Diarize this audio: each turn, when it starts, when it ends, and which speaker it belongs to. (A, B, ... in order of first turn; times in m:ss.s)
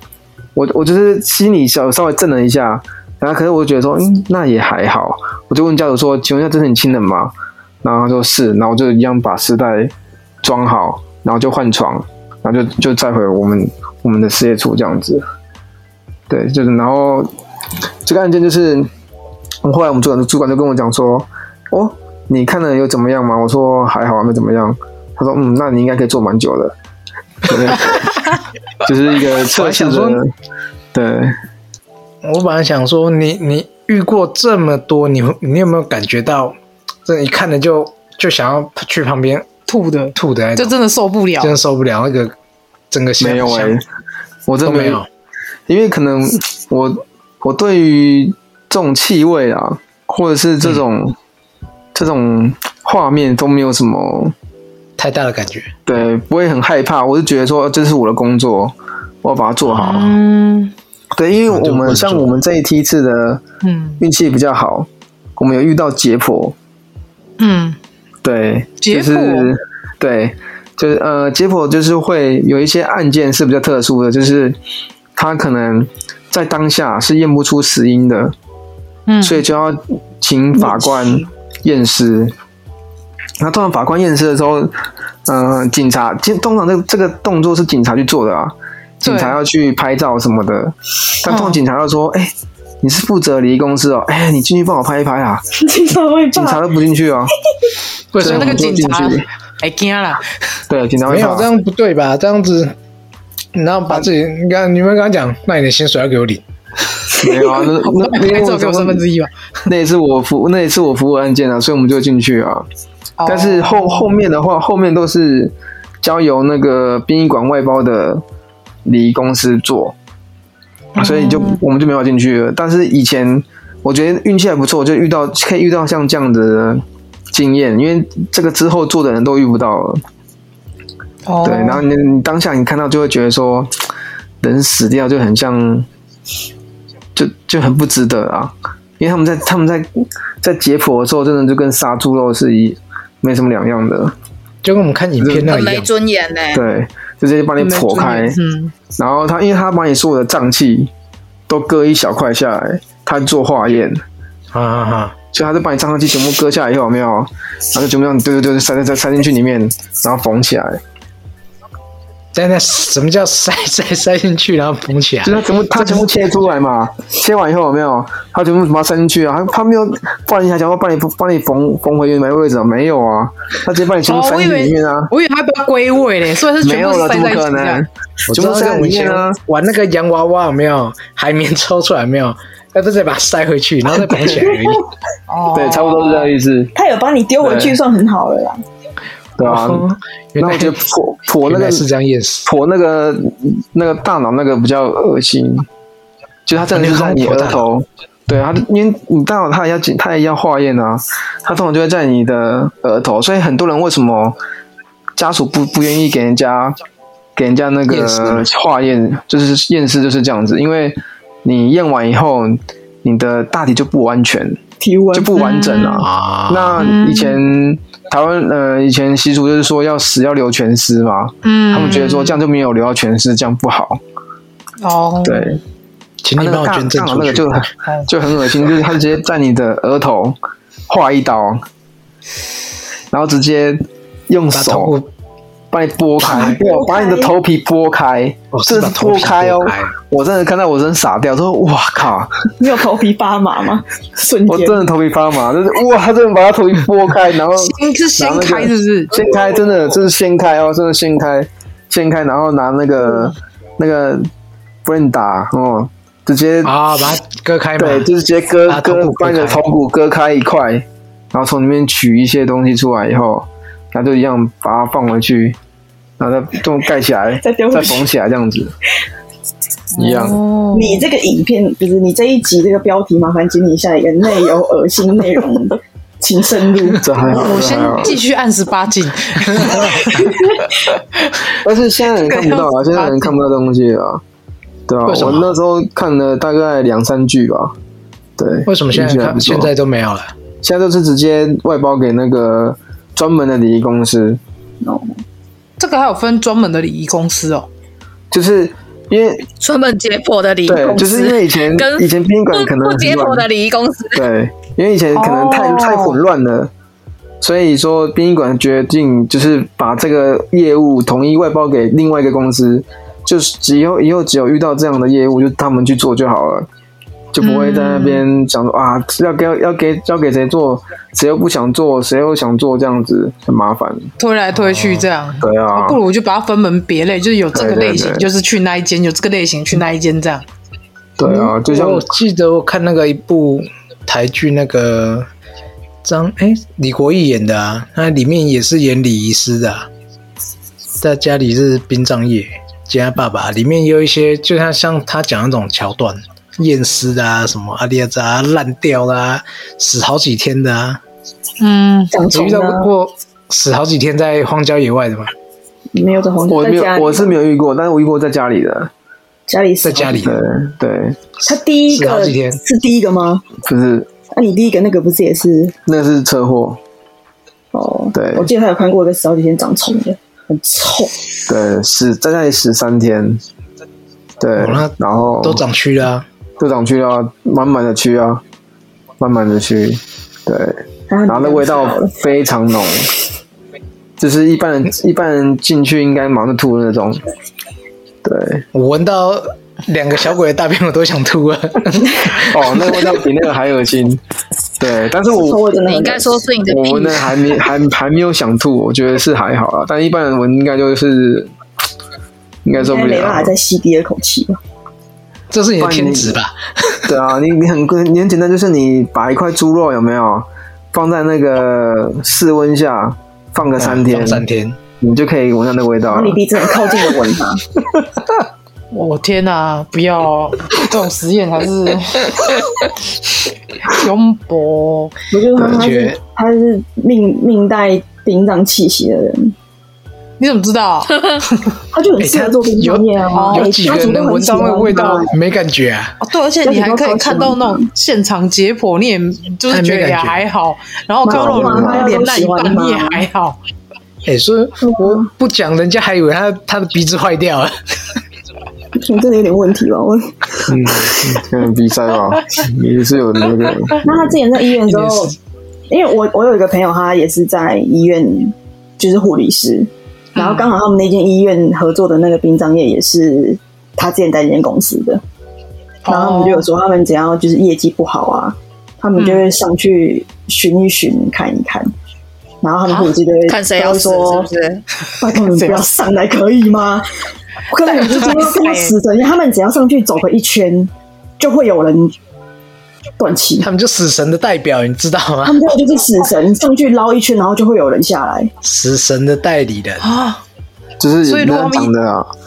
0:00.6-0:15.2 A
0:16.3-0:17.3 A
0:18.0-0:18.9 A
0:19.6-0:26.8 A
0:27.4-0:28.1 A
0:28.8-0:30.3 A
0:29.5-0:30.2 B
0:30.9-0:31.4 A
0:32.2-0:39.5 B
0:39.7-0:41.6 C
0:40.2-0:40.7 B
0:41.4-0:42.3 B
0:42.9-0:43.8 B
0:43.2-0:43.8 A
0:44.5-0:45.0 A
0:44.6-0:45.1 B
0:45.7-0:51.2 A
0:51.9-0:54.3 A
0:55.0-0:55.8 B
0:55.9-1:00.1 A
0:59.8-1:00.7 C
1:01.2-1:03.4 A
1:01.5-1:02.3 B
1:03.6-1:04.0 C
1:04.0-1:06.6 A
1:07.4-1:07.8 C
1:08.2-1:14.6 A
1:08.8-1:09.5 C
1:15.2-1:18.3 A
1:19.1-1:19.4 C
1:19.2-1:22.4 A
1:20.7-1:21.2 D
1:23.4-1:24.8 A
1:25.3-1:35.4 A
1:29.0-1:29.4 C
1:31.3-1:31.6 C
1:35.6-1:36.6 D
1:36.3-1:37.3 A
1:38.1-1:38.6 B
1:38.2-1:39.3 A
1:38.2-1:40.2 C
1:40.7-1:41.5 A
1:41.1-1:42.8 B
1:43.6-1:46.4 B
1:47.2-1:49.0 A
1:47.8-1:49.3 C
1:49.7-1:52.7 A
1:53.2-1:54.1 C
1:53.3-1:58.2 A
1:58.8-2:00.0 A
2:01.0-2:01.6 C
2:01.0-2:10.0 A
2:11.3-2:11.8 C
2:11.4-2:13.7 A
2:14.4-2:15.9 A
2:17.2-2:24.2 A
2:24.6-2:25.9 B
2:25.2-2:25.6 A
2:25.5-2:26.6 E
2:26.5-2:28.4 A
2:27.6-2:28.7 C
2:29.0-2:30.9 A
2:31.5-2:34.0 A
2:34.5-2:35.2 B
2:35.3-2:40.8 A
2:42.3-2:46.0 B
2:45.2-2:55.1 A
2:54.1-2:57.8 C
2:56.6-2:59.4 A
2:58.3-3:04.9 B
3:05.3-3:06.3 C
3:05.5-3:06.7 A
3:06.8-3:08.6 D
3:07.4-3:07.8 A
3:09.4-3:09.9 A
3:09.4-3:10.8 B
3:10.4-3:11.9 A
3:11.4-3:12.5 B
3:12.4-3:15.7 A
3:16.5-3:24.4 A
3:16.6-3:17.6 B
3:25.2-3:26.8 A
3:27.4-3:34.6 A
3:27.9-3:28.5 B
3:34.8-3:35.3 D
3:35.1-3:44.0 A
3:35.4-3:36.1 C
3:36.0-3:36.9 B
3:36.8-3:37.4 C
3:41.4-3:42.4 C
3:44.8-3:45.6 C
3:45.2-3:45.6 A
3:46.2-3:47.6 B
3:46.4-3:50.4 A
3:50.9-3:51.6 A
3:53.1-3:55.0 A
3:54.5-3:55.1 B
3:55.7-4:02.5 A
3:56.2-3:56.6 B
3:56.2-3:57.3 D
3:58.5-4:00.0 B
4:02.6-4:04.8 D
4:04.5-4:14.3 A
4:07.6-4:09.2 C
4:14.8-4:16.7 A
4:16.6-4:18.1 B
4:17.8-4:25.6 A
4:18.7-4:19.6 B
4:26.2-4:28.7 A
4:27.4-4:28.1 D
4:30.0-4:30.4 A
4:30.0-4:31.1 C
4:30.7-4:37.6 D
4:37.0-4:38.2 A
4:37.2-4:40.4 C
4:39.6-4:40.0 B
4:40.2-4:40.6 D
4:41.6-4:44.2 A
4:42.1-4:43.4 C
4:44.9-4:47.8 A
4:45.1-4:45.5 B
4:48.4-4:49.7 A
4:48.7-4:50.3 B
4:50.6-4:54.4 A
4:54.8-4:55.1 D
4:55.8-4:57.7 C
4:58.3-4:59.5 A
4:59.6-5:04.2 E
5:00.7-5:03.5 A
5:04.1-5:06.7 A
5:05.1-5:06.2 C
5:07.4-5:16.7 A
5:17.3-5:24.1 A
5:17.4-5:18.2 C
5:24.2-5:30.4 C
5:24.6-5:25.1 B
5:25.4-5:26.0 A
5:27.5-5:28.3 A
5:31.2-5:32.1 A
5:31.6-5:35.3 B
5:36.0-5:39.9 B
5:41.0-5:51.0 B
5:51.6-5:52.1 C
5:52.1-5:52.9 D
5:52.3-5:55.3 B
5:55.9-5:57.4 D
5:56.5-5:58.9 A
5:59.5-6:00.3 D
5:59.8-6:00.4 B
6:00.2-6:01.2 A
6:01.4-6:03.5 D
6:01.9-6:02.6 B
6:03.6-6:04.1 A
6:04.3-6:05.8 D
6:05.9-6:06.8 A
6:07.7-6:11.2 D
6:08.1-6:08.5 A
6:11.5-6:13.4 A
6:14.4-6:15.6 A
6:14.6-6:16.3 B
6:16.6-6:18.4 A
6:19.2-6:23.1 A
6:21.1-6:22.1 D
6:24.2-6:27.2 A
6:28.2-6:28.7 A
6:28.7-6:32.7 B
6:32.4-6:34.2 A
6:34.8-6:35.6 A
6:35.3-6:36.4 D
6:35.8-6:37.6 E
6:36.7-6:41.5 A
6:42.6-6:43.6 A
6:42.8-6:44.6 D
6:45.5-6:47.1 B
6:45.8-6:46.4 A
6:47.1-6:54.4 A
6:53.8-6:54.8 B
6:55.0-6:56.4 A
6:56.1-6:57.6 D
6:58.9-7:02.4 C
7:03.9-7:05.1 C
7:05.3-7:09.5 D
7:05.6-7:05.9 A
7:05.8-7:06.2 B
7:10.4-7:11.7 C
7:11.9-7:15.3 D
7:12.2-7:16.2 B
7:13.4-7:15.3 C
7:16.2-7:23.6 C
7:16.6-7:17.8 D
7:19.7-7:20.4 B
7:21.2-7:23.2 D
7:21.3-7:22.2 A
7:24.2-7:27.7 B
7:24.9-7:25.3 D
7:29.0-7:30.7 D
7:30.7-7:34.4 A
7:30.9-7:31.2 B
7:34.0-7:35.4 D
7:34.9-7:35.3 B
7:35.9-7:45.2 D
7:40.4-7:40.7 C
7:46.0-7:46.7 C
7:46.1-7:51.9 D
7:49.2-7:49.5 C
7:52.6-7:54.5 D
7:52.9-7:54.8 E
7:55.2-7:57.1 D
7:55.4-7:55.9 C
7:57.7-8:02.2 D
7:57.8-7:58.9 C
8:03.2-8:03.7 D
8:03.6-8:05.6 B
8:05.4-8:08.5 D
8:08.6-8:10.0 B
8:10.0-8:10.4 C
8:11.0-8:12.3 A
8:11.2-8:11.9 C